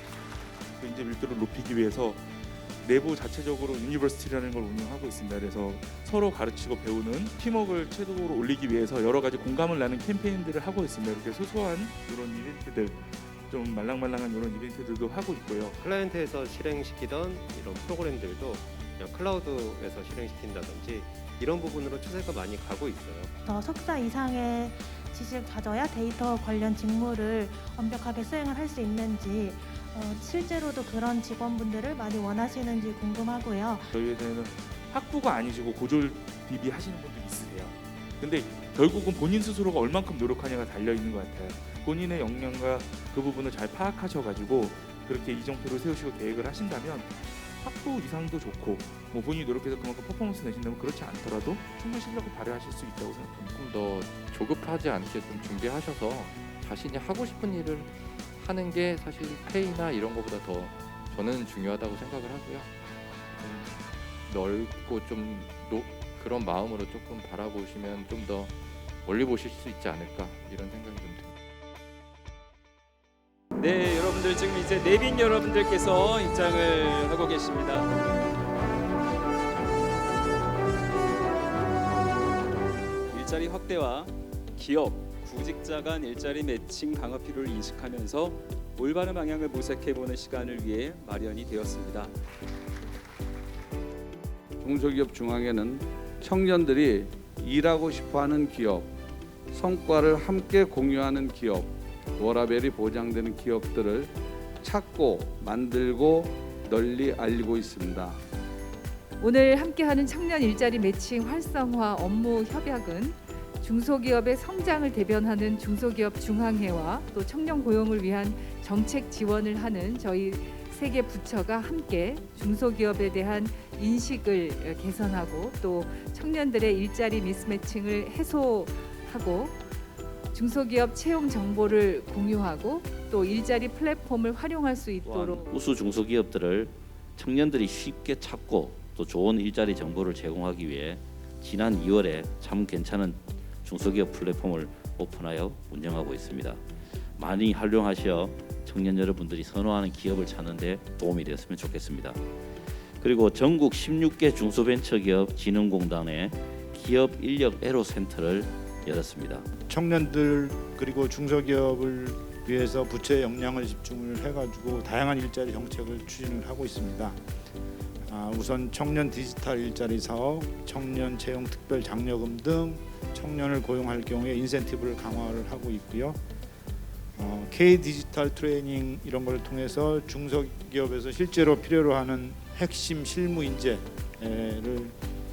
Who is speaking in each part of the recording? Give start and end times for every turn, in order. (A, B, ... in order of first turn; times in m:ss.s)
0:00.8-0:15.8 A
0:15.8-0:23.3 B
0:23.5-0:33.9 C
0:33.9-0:53.5 A
0:53.5-1:02.7 D
1:03.4-1:03.8 D
1:04.3-1:11.3 D
1:13.6-1:17.9 E
1:23.1-1:32.1 E
1:34.6-1:38.9 F
1:39.5-1:48.2 F
1:49.2-2:09.6 G
2:10.3-2:15.5 G
2:15.0-2:26.6 H
2:27.2-2:32.2 H
2:33.0-2:39.4 H
2:39.7-2:47.2 I
2:48.0-2:56.2 I
2:57.2-3:05.0 I